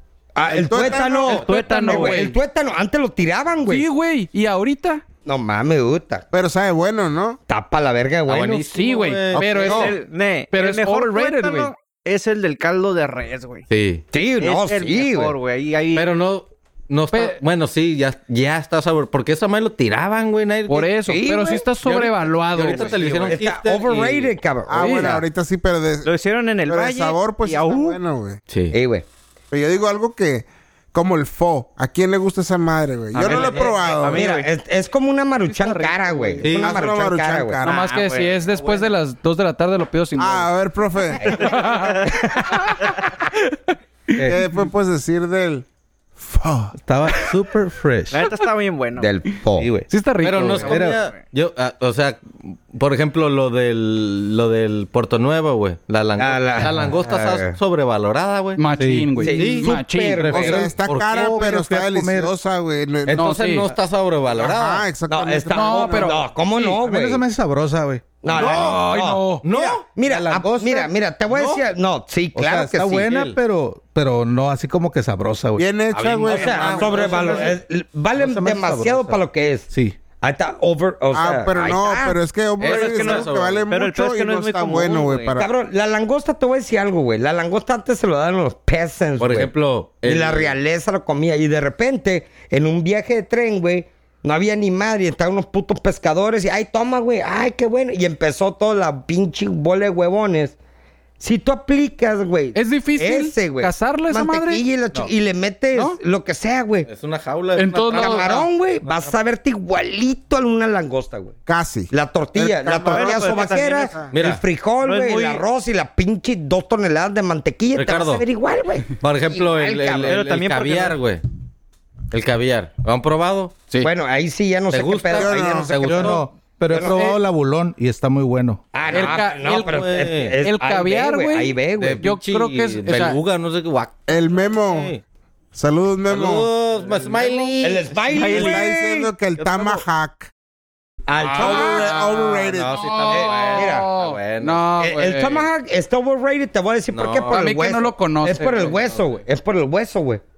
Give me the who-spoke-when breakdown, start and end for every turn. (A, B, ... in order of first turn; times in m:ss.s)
0:00.4-0:03.9 A
0:00.5-0:02.4 B
0:00.6-0:01.4 C
0:01.3-0:02.4 D
0:03.7-0:05.0 D
0:05.2-0:06.3 A
0:06.3-0:07.4 C
0:07.5-0:08.7 A
0:08.3-0:09.9 E
0:08.7-0:10.0 D
0:09.4-0:13.7 B
0:09.6-0:09.9 A
0:10.5-0:11.7 D
0:13.7-0:14.0 E
0:14.1-0:15.4 A
0:14.4-0:16.1 B
0:15.9-0:20.9 E
0:17.1-0:17.4 D
0:20.7-0:23.3 D
0:21.1-0:21.7 A
0:21.8-0:24.4 E
0:22.7-0:23.3 B
0:23.3-0:25.2 A
0:24.7-0:26.1 C
0:24.8-0:25.1 D
0:26.0-0:28.0 B
0:26.7-0:28.4 C
0:28.5-0:28.8 E
0:28.7-0:29.0 A
0:29.5-0:34.3 C
0:33.2-0:34.5 B
0:33.2-0:37.6 A
0:35.5-0:36.7 B
0:36.4-0:36.8 E
0:36.5-0:37.8 C
0:37.6-0:38.9 B
0:37.6-0:40.5 D
0:40.2-0:41.5 C
0:41.2-0:41.6 A
0:41.3-0:43.5 D
0:41.6-0:42.1 B
0:44.2-0:45.6 C
0:46.2-0:46.7 C
0:46.8-0:48.3 F
0:48.1-0:49.1 B
0:49.0-0:49.7 A
0:49.6-0:49.9 F
0:49.9-0:50.7 D
0:50.2-0:58.6 E
0:50.6-0:51.2 B
0:56.2-0:57.6 A
0:58.6-1:00.4 D
0:58.8-0:59.2 F
0:59.2-1:00.7 A
0:59.2-1:01.4 E
1:00.3-1:03.3 C
1:00.9-1:02.3 F
1:03.1-1:04.9 E
1:03.2-1:03.7 D
1:04.4-1:06.2 C
1:05.1-1:07.2 A
1:05.5-1:06.3 D
1:06.6-1:08.8 F
1:08.2-1:13.1 A
1:08.3-1:08.8 E
1:08.4-1:09.4 D
1:09.4-1:09.9 E
1:10.1-1:10.9 F
1:11.3-1:11.6 E
1:12.4-1:15.6 F
1:13.1-1:13.4 E
1:15.6-1:17.4 C
1:15.9-1:17.6 E
1:16.3-1:22.2 A
1:18.2-1:19.2 F
1:19.7-1:20.0 F
1:21.1-1:25.5 C
1:22.6-1:23.7 E
1:22.6-1:25.4 B
1:25.4-1:29.5 A
1:29.2-1:30.6 E
1:30.0-1:40.6 A
1:41.2-1:46.9 A
1:42.6-1:44.6 D
1:46.9-1:48.4 E
1:47.6-1:48.5 D
1:48.0-1:51.4 A
1:51.5-1:54.1 C
1:51.9-2:00.2 A
1:52.8-1:53.9 B
1:54.1-1:54.4 E
1:54.8-1:55.4 B
1:57.7-1:58.2 E
1:59.0-2:01.2 E
2:00.1-2:01.0 B
2:02.1-2:03.6 E
2:03.8-2:07.1 A
2:04.7-2:06.1 E
2:05.2-2:05.8 C
2:05.8-2:08.6 F
2:06.8-2:07.2 D
2:08.7-2:12.0 A
2:08.9-2:10.4 E
2:08.9-2:09.9 D
2:10.4-2:13.2 D
2:11.8-2:15.0 E
2:14.1-2:14.9 C
2:15.5-2:16.5 C
2:16.1-2:18.3 E
2:17.6-2:19.1 A
2:18.2-2:18.6 B
2:18.2-2:20.3 C
2:19.4-2:19.8 E
2:21.1-2:22.3 A
2:21.2-2:24.6 E
2:21.4-2:22.7 C
2:22.7-2:25.5 D
2:23.1-2:23.9 A
2:24.8-2:30.2 A
2:26.9-2:27.4 E
2:27.3-2:28.7 D
2:28.4-2:29.0 E